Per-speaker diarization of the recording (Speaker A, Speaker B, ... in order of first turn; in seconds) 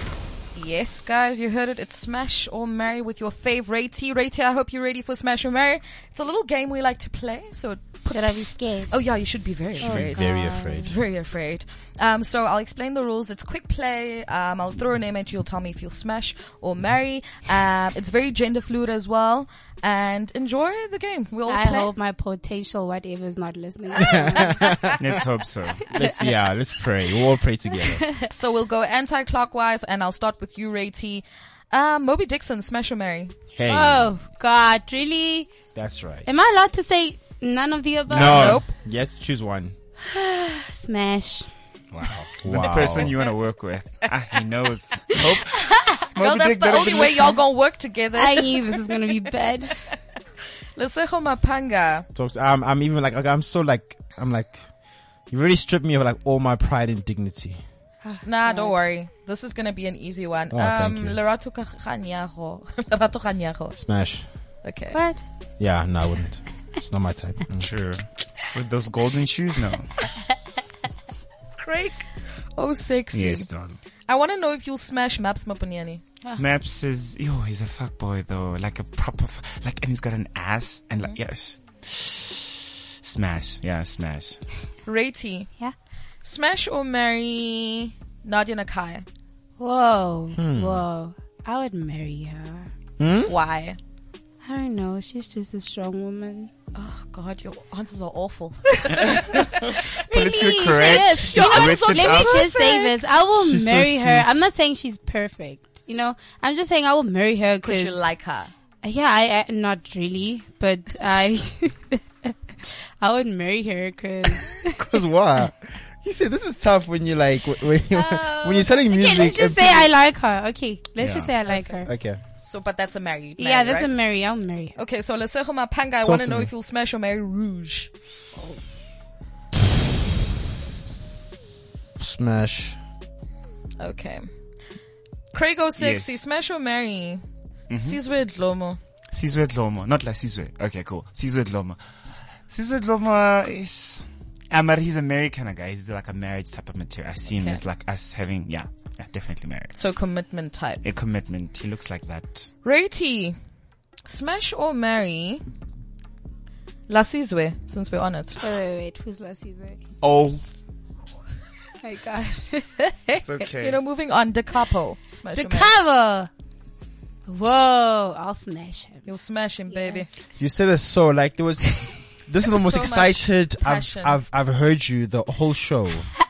Speaker A: 0.6-21.9, 24.0-25.0, 28.3-33.3, 38.1-38.7, 46.2-49.2, 50.8-52.1, 58.2-63.8, 64.6-65.0, 71.6-72.0, 72.6-73.5, 74.1-76.0, 84.9-85.5, 86.2-89.1, 93.3-93.8, 96.8-99.8, 100.6-102.9, 107.6-108.5, 121.4-121.8, 122.4-124.0, 124.8-127.9, 133.8-134.3, 135.3-138.8, 147.3-147.6, 149.7-150.8, 152.6-153.4, 154.1-155.4, 156.9-158.5, 163.6-165.7, 169.1-170.1, 172.5-174.2
Speaker B: 8.1-8.9, 9.8-10.9, 21.5-24.9, 25.9-26.4, 27.8-28.3, 33.7-35.5, 36.2-38.6, 40.0-41.5, 45.8-46.0, 48.1-49.8, 58.0-58.8, 64.9-65.2, 89.6-92.7, 94.4-96.5, 100.1-108.0, 108.8-115.0, 117.9-121.9, 123.4-124.8, 158.4-159.8, 161.8-163.3, 165.3-166.3, 167.3-169.1, 169.7-170.1
Speaker C: 9.8-10.9, 24.0-24.9, 25.9-28.1, 33.5-34.1, 35.8-36.3, 38.1-39.8, 42.2-43.2, 52.1-54.7, 55.3-57.6, 60.5-61.2, 63.8-64.2, 65.6-67.7, 90.4-90.8, 93.0-93.3, 103.3-104.3, 114.8-119.9, 121.9-122.2, 126.0-126.5, 132.0-132.8, 170.4-176.1
Speaker D: 25.0-25.8, 41.9-47.4, 67.6-69.9, 73.1-73.8, 76.4-84.4, 100.1-102.5, 121.0-121.3, 135.8-136.2, 137.7-138.0, 139.1-141.8, 142.5-149.8, 150.8-152.5, 160.0-160.4, 163.2-163.8